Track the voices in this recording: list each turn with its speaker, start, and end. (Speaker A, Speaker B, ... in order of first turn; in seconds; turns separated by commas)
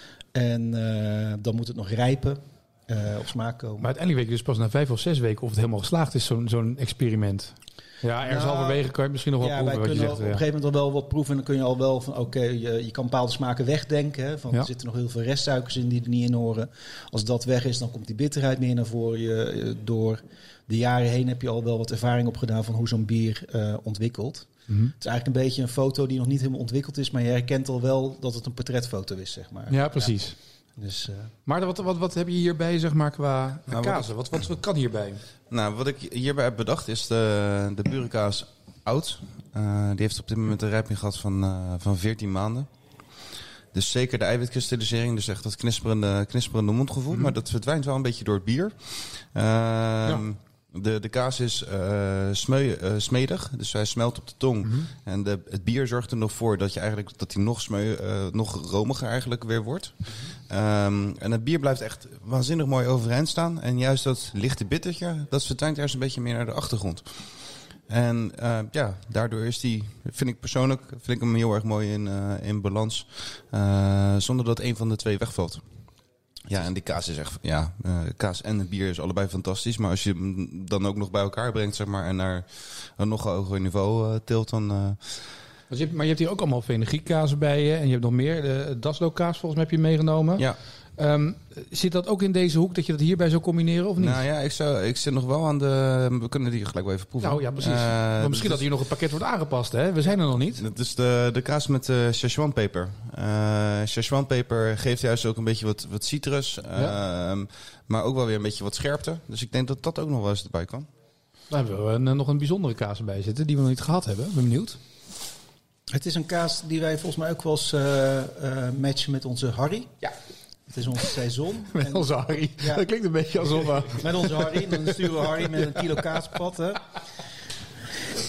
Speaker A: 0.3-3.9, Speaker B: 3.8-10.4, Speaker A: 8.2-8.8, Speaker A: 9.4-30.2, Speaker B: 24.7-24.9, Speaker B: 29.7-30.4, Speaker A: 30.8-31.3, Speaker B: 31.5-35.2, Speaker C: 33.7-34.4, Speaker C: 35.5-42.7, Speaker C: 43.7-75.6, Speaker B: 54.6-54.9, Speaker C: 76.5-85.4, Speaker B: 85.7-94.2, Speaker C: 94.0-98.7, Speaker B: 97.2-100.6, Speaker C: 100.6-110.9, Speaker B: 111.5-114.8, Speaker A: 115.9-120.0, Speaker A: 120.7-122.8, Speaker B: 121.7-125.8, Speaker A: 123.9-126.8